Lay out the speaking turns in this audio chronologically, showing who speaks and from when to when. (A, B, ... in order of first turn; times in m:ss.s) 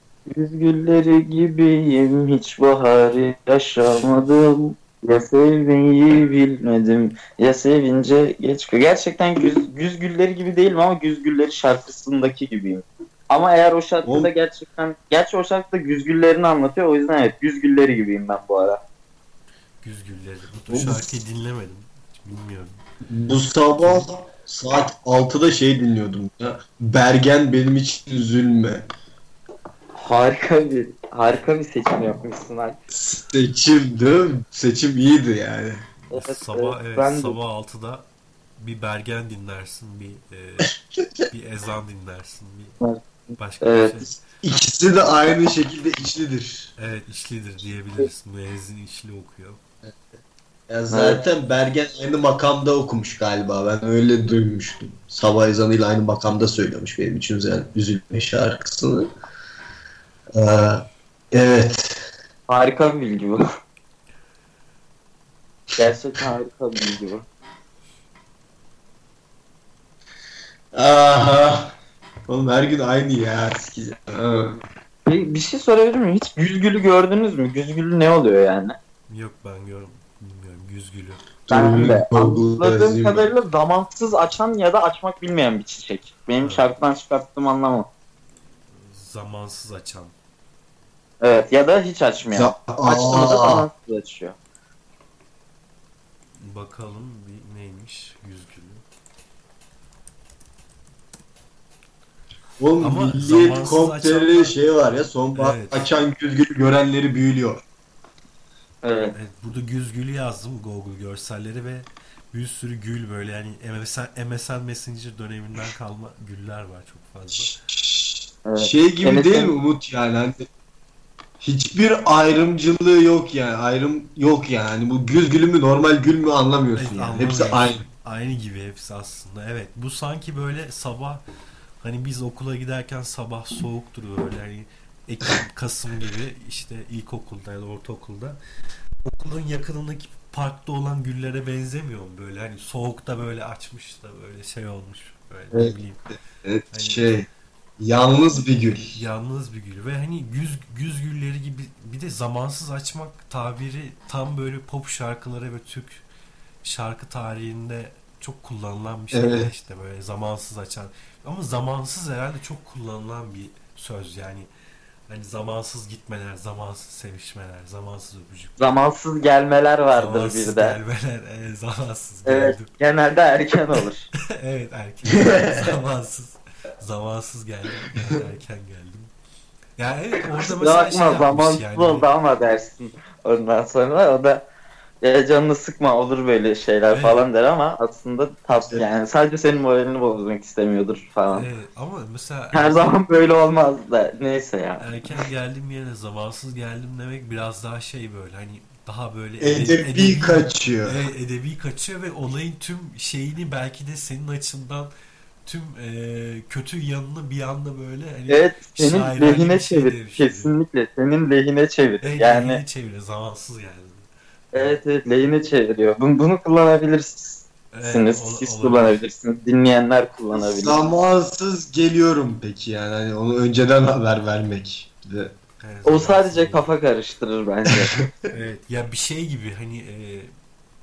0:00.3-0:18.8 A
0:14.0-0:14.3 B
0:19.8-0:22.8 C
0:20.7-0:21.0 B
0:23.1-0:28.9 B
0:23.8-0:24.1 C
0:29.9-0:32.8 A
0:32.9-0:35.8 B
0:36.0-0:40.7 C
0:36.1-0:37.4 A
0:41.3-0:42.8 C
0:42.8-0:44.0 A
0:43.4-0:44.2 C
0:44.4-0:46.7 B
0:46.8-0:49.6 C
0:50.7-0:59.1 B
0:50.9-0:51.2 A
1:00.4-1:02.0 B
1:02.5-1:03.4 A
1:05.8-1:07.3 A
1:10.7-1:11.7 B
1:12.3-1:14.6 B
1:15.0-1:18.8 A
1:19.1-1:21.2 C
1:21.5-1:23.3 B
1:21.5-1:27.9 A
1:26.4-1:26.7 C
1:28.7-1:30.1 C
1:31.2-1:34.4 A
1:32.3-1:33.7 B
1:36.4-1:38.8 C
1:42.6-1:47.6 B
1:42.8-1:44.5 C
1:45.4-1:45.9 C
1:48.8-1:49.1 A
1:49.1-1:57.6 C
1:57.4-2:00.4 B
1:58.4-1:59.5 A
2:01.4-2:07.8 B
2:06.7-2:11.2 C
2:11.8-2:18.4 C
2:19.0-2:26.0 C
2:26.4-2:27.3 B
2:26.7-2:27.1 C
2:27.8-2:29.0 B
2:28.9-2:36.0 C
2:36.6-2:44.5 C
2:39.1-2:39.5 B
2:45.1-2:48.7 C
2:48.6-2:50.8 A
2:49.9-2:52.7 C
2:52.2-2:54.1 A
2:54.4-2:59.1 C
2:55.2-2:55.6 B
2:59.8-3:02.1 C
3:00.3-3:04.4 A
3:05.0-3:11.5 A
3:06.9-3:07.2 C
3:11.3-3:12.9 C
3:12.5-3:14.9 A
3:14.8-3:24.9 C
3:19.4-3:21.0 B
3:25.4-3:30.5 C
3:28.3-3:32.6 A
3:32.0-3:34.8 C
3:34.5-3:40.8 A
3:37.7-3:39.0 C
3:40.3-3:45.3 B
3:45.6-3:46.7 C
3:45.8-3:48.0 A
3:48.3-3:50.3 C